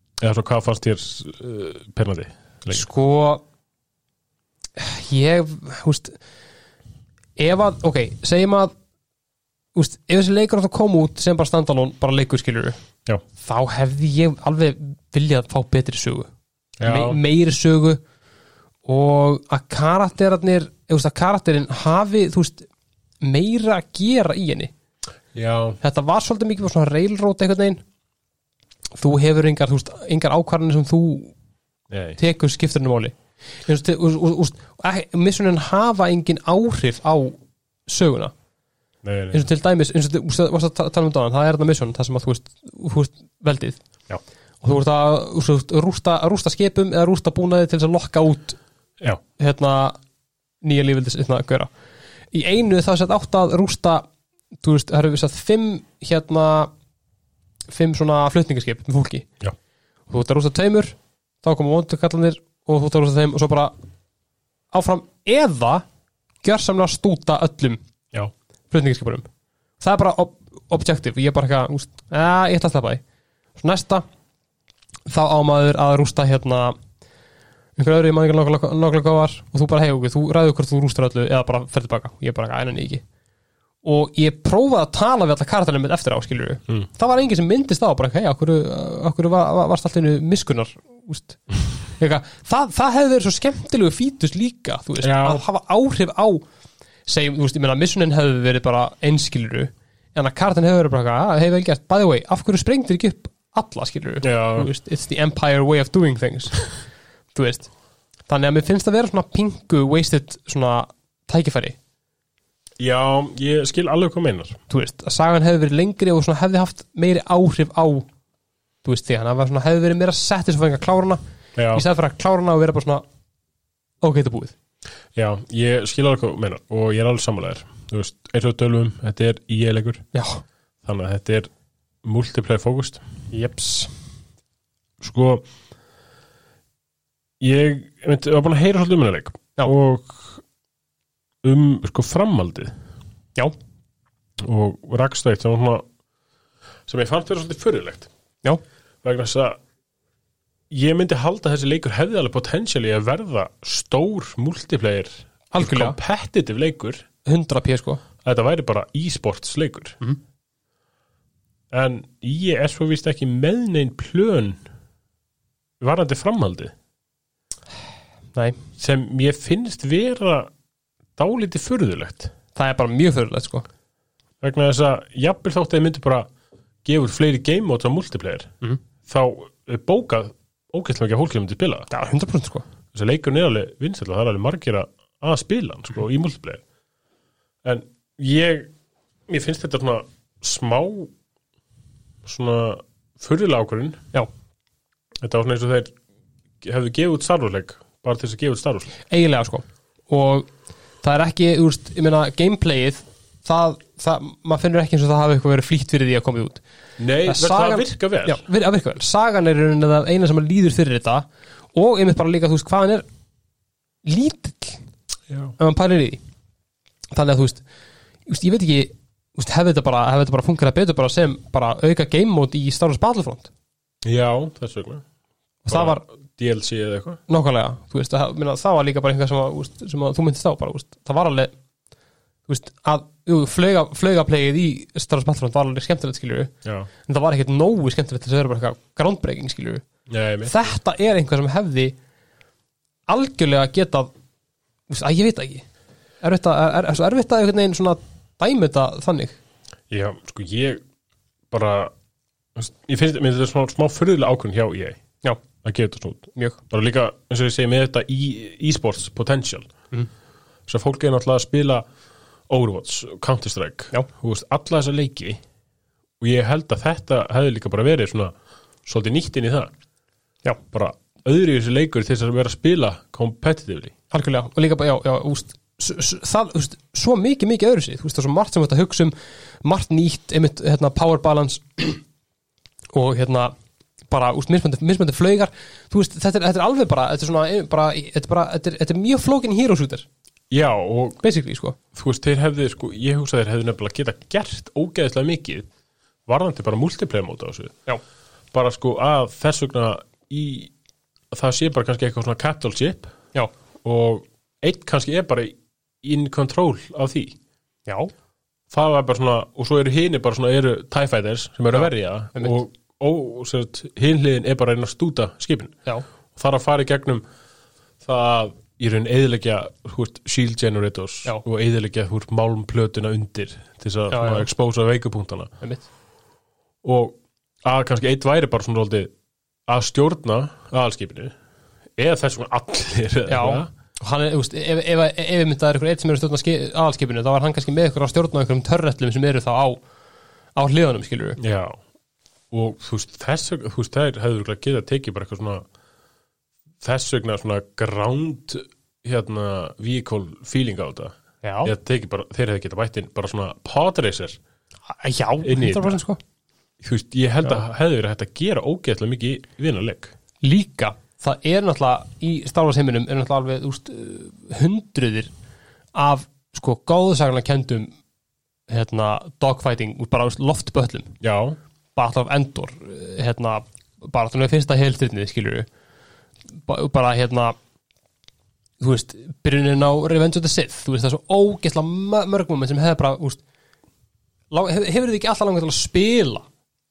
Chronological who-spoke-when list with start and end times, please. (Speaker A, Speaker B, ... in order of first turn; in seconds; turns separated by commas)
Speaker A: 0.2-2.9, Speaker B: 2.7-3.4, Speaker B: 4.8-6.2, Speaker B: 7.4-8.7, Speaker B: 9.7-12.8, Speaker B: 13.4-16.3, Speaker A: 16.8-17.2, Speaker B: 16.8-18.0, Speaker B: 18.9-22.6, Speaker B: 23.2-24.7, Speaker A: 25.3-25.8, Speaker B: 25.8-27.8, Speaker B: 29.0-31.3, Speaker A: 31.9-32.2, Speaker B: 32.2-38.3, Speaker A: 39.0-39.4, Speaker B: 39.3-43.8, Speaker B: 44.6-48.6, Speaker B: 49.4-50.0, Speaker B: 50.6-51.7, Speaker B: 52.3-54.0, Speaker B: 54.6-56.7, Speaker B: 57.7-59.3, Speaker B: 60.1-63.7, Speaker B: 64.7-65.8, Speaker B: 66.4-67.8, Speaker B: 68.7-69.3, Speaker B: 69.8-73.0, Speaker B: 73.6-74.0, Speaker B: 75.1-76.8, Speaker B: 77.8-83.0, Speaker B: 83.8-96.4, Speaker A: 95.0-95.4, Speaker B: 97.1-106.6, Speaker A: 104.2-104.7, Speaker B: 107.3-107.7, Speaker B: 108.3-111.8, Speaker A: 112.8-114.6, Speaker B: 114.7-118.1, Speaker B: 118.8-121.2, Speaker A: 121.5-121.8, Speaker B: 121.7-123.0, Speaker B: 124.0-124.5, Speaker A: 125.1-130.0, Speaker B: 130.1-130.4, Speaker A: 130.8-131.5, Speaker A: 132.0-133.0, Speaker B: 133.3-133.9, Speaker A: 135.0-135.4, Speaker A: 137.4-140.4, Speaker A: 141.4-142.7, Speaker A: 144.4-145.8, Speaker A: 146.9-148.1, Speaker A: 149.0-149.6, Speaker A: 150.7-157.0, Speaker B: 155.5-156.0, Speaker B: 157.2-158.0, Speaker A: 158.2-160.0, Speaker A: 161.7-164.6, Speaker A: 165.8-166.7, Speaker B: 168.3-168.6, Speaker A: 168.8-170.5, Speaker A: 171.2-172.3, Speaker B: 172.5-173.7, Speaker A: 174.4-176.3, Speaker A: 176.8-178.5, Speaker A: 179.1-181.9, Speaker B: 181.9-182.7, Speaker A: 182.9-186.6, Speaker A: 187.6-188.7, Speaker A: 189.3-191.1, Speaker A: 192.2-194.0, Speaker A: 195.2-195.9, Speaker A: 196.6-198.9, Speaker B: 199.1-200.5, Speaker B: 201.0-206.6, Speaker A: 207.0-208.4, Speaker B: 207.2-213.1, Speaker B: 214.0-214.8, Speaker A: 215.3-215.5, Speaker B: 215.6-216.2, Speaker B: 217.1-217.6, Speaker B: 218.2-223.5, Speaker A: 224.0-225.0, Speaker B: 225.7-226.0, Speaker A: 225.7-227.2, Speaker B: 227.3-231.5, Speaker B: 232.5-236.5, Speaker B: 237.0-239.8, Speaker A: 240.1-240.6, Speaker B: 240.4-241.9, Speaker B: 243.1-244.1, Speaker B: 244.9-245.6, Speaker B: 246.2-249.4, Speaker A: 249.9-250.8, Speaker A: 251.5-251.9, Speaker A: 252.5-255.0, Speaker A: 255.6-259.7, Speaker A: 260.7-261.9, Speaker A: 262.5-265.4, Speaker A: 266.2-269.7, Speaker A: 270.7-273.9, Speaker B: 274.1-282.0, Speaker B: 282.9-283.5, Speaker B: 284.1-290.1, Speaker A: 290.5-291.2, Speaker B: 291.2-291.8, Speaker A: 291.9-295.7, Speaker A: 296.3-297.7, Speaker A: 298.5-300.7, Speaker A: 301.3-303.1, Speaker A: 303.8-307.4, Speaker B: 307.9-308.1, Speaker A: 308.7-315.8, Speaker B: 311.7-312.6, Speaker A: 316.4-317.2, Speaker A: 318.0-325.5, Speaker B: 324.1-324.5, Speaker B: 325.6-325.9, Speaker A: 326.8-329.1, Speaker A: 329.7-331.3, Speaker A: 332.0-333.7, Speaker B: 333.3-339.8, Speaker B: 340.6-341.4, Speaker A: 341.4-341.8, Speaker A: 342.5-345.6, Speaker A: 346.8-354.4, Speaker B: 351.4-351.7, Speaker B: 354.9-356.2, Speaker A: 355.4-356.0, Speaker A: 356.8-360.1, Speaker B: 360.4-365.3, Speaker B: 365.9-367.9, Speaker B: 368.7-371.1, Speaker A: 371.2-371.6, Speaker B: 371.9-375.7, Speaker B: 376.7-377.5, Speaker B: 378.8-383.4, Speaker B: 384.5-386.5